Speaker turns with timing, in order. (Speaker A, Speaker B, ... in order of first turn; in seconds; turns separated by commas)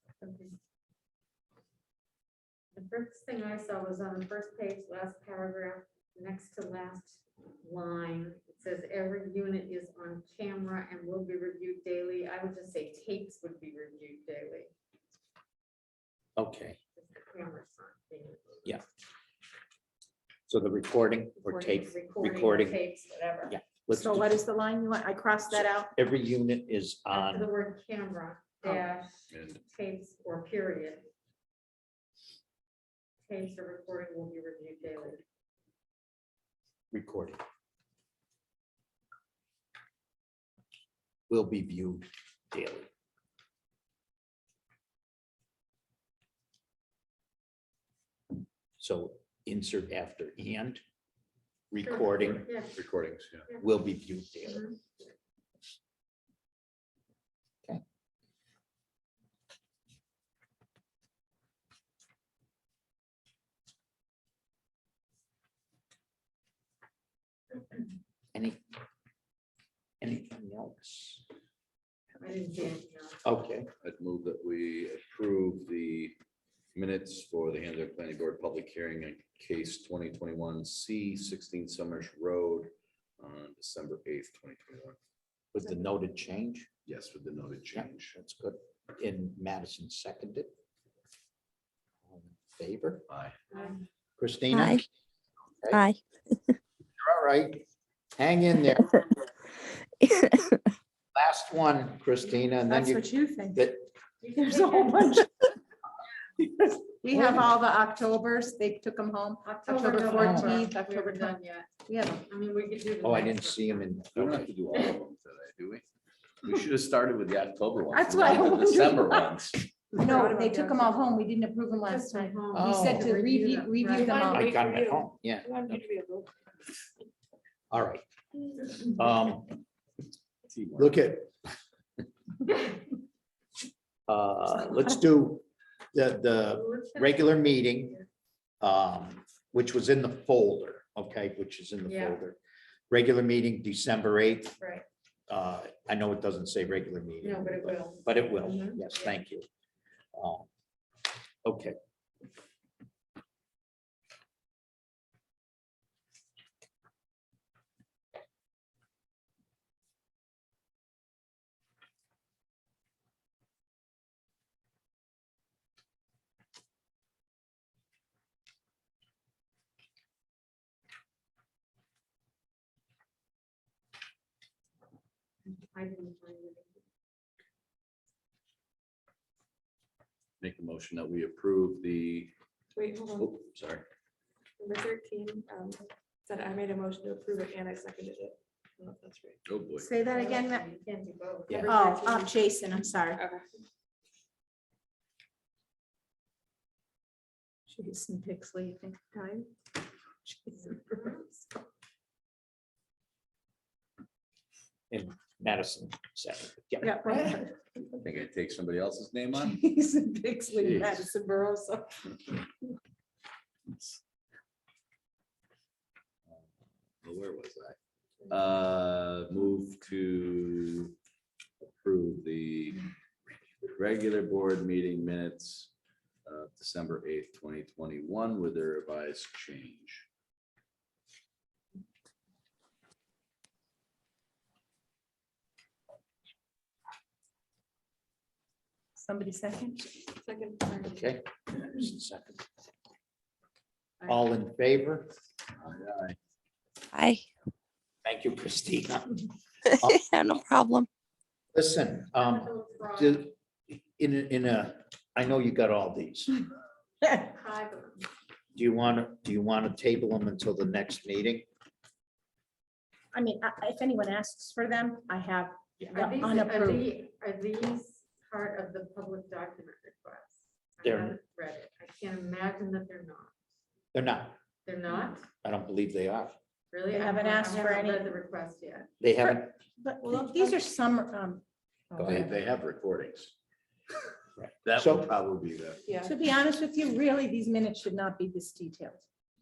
Speaker A: 0.2-0.5, Speaker A: 2.7-14.7, Speaker B: 16.4-16.8, Speaker A: 17.0-18.6, Speaker B: 20.5-22.8, Speaker A: 21.4-23.6, Speaker B: 23.5-24.3, Speaker C: 23.9-25.9, Speaker B: 25.5-27.5, Speaker A: 27.1-29.1, Speaker D: 29.3-29.6, Speaker A: 29.7-31.0, Speaker A: 33.3-35.2, Speaker B: 36.9-37.4, Speaker B: 41.3-42.9, Speaker B: 48.8-50.8, Speaker B: 51.7-52.5, Speaker A: 51.8-52.8, Speaker D: 52.7-53.5, Speaker B: 53.6-54.7, Speaker A: 54.4-54.8, Speaker B: 68.3-68.6, Speaker B: 70.0-71.2, Speaker A: 72.2-73.2, Speaker B: 73.2-73.7, Speaker D: 73.8-76.2, Speaker D: 76.7-85.0, Speaker B: 85.5-86.7, Speaker D: 86.8-88.1, Speaker B: 87.7-90.5, Speaker B: 92.1-93.0, Speaker D: 93.1-93.4, Speaker A: 93.5-93.8, Speaker B: 94.2-94.8, Speaker E: 94.5-94.8, Speaker E: 95.7-96.5, Speaker B: 97.0-97.6, Speaker B: 98.2-99.1, Speaker B: 101.1-103.8, Speaker C: 102.7-103.7, Speaker A: 104.2-105.3, Speaker C: 104.3-105.5, Speaker C: 106.4-111.3, Speaker A: 109.4-113.9, Speaker B: 110.2-110.5, Speaker C: 111.9-112.2, Speaker B: 113.0-114.5, Speaker D: 114.1-115.8, Speaker D: 116.4-119.6, Speaker C: 117.9-119.4, Speaker C: 119.9-124.6, Speaker F: 120.0-121.0, Speaker A: 121.8-124.2, Speaker B: 122.5-123.2, Speaker F: 124.0-126.3, Speaker B: 124.2-125.8, Speaker B: 127.7-128.0, Speaker B: 128.7-129.6, Speaker D: 130.4-130.9, Speaker B: 130.8-131.3, Speaker B: 134.1-138.0, Speaker A: 136.5-137.4, Speaker B: 138.6-142.4, Speaker A: 141.8-142.2, Speaker B: 142.9-144.5, Speaker A: 144.6-144.8, Speaker B: 145.3-149.4, Speaker A: 147.2-149.1, Speaker B: 150.1-150.5, Speaker B: 151.4-151.8, Speaker A: 175.4-176.7, Speaker D: 180.4-182.3, Speaker F: 182.8-183.3, Speaker D: 183.1-183.8, Speaker F: 184.6-189.4, Speaker D: 189.4-189.9, Speaker C: 189.8-190.6, Speaker A: 190.1-192.0, Speaker C: 191.7-193.2, Speaker F: 193.2-193.6, Speaker C: 197.7-199.5, Speaker C: 200.2-201.4, Speaker B: 204.9-206.9, Speaker C: 206.8-207.5, Speaker D: 207.9-209.6, Speaker C: 209.4-212.1, Speaker D: 210.5-211.1, Speaker D: 217.0-217.8, Speaker D: 218.3-220.9, Speaker D: 221.6-222.8, Speaker D: 223.7-225.7, Speaker D: 226.2-230.1, Speaker C: 239.0-239.9, Speaker F: 240.2-241.0, Speaker B: 240.8-242.4, Speaker B: 244.1-245.1, Speaker D: 245.6-246.2, Speaker E: 246.9-247.2, Speaker B: 248.0-249.3, Speaker E: 249.8-250.9, Speaker B: 251.5-256.4, Speaker A: 252.2-253.2, Speaker A: 257.1-258.1, Speaker B: 258.5-261.4, Speaker C: 263.1-266.9, Speaker A: 265.9-273.3, Speaker B: 270.8-271.1, Speaker B: 273.9-274.4, Speaker A: 274.6-275.2, Speaker B: 275.4-276.3, Speaker A: 276.7-278.9, Speaker C: 276.9-278.1, Speaker B: 279.0-279.5, Speaker C: 279.2-281.4, Speaker F: 280.0-280.5, Speaker C: 281.9-282.2, Speaker D: 281.9-283.3, Speaker B: 284.4-285.1, Speaker D: 284.6-285.8, Speaker C: 286.0-289.0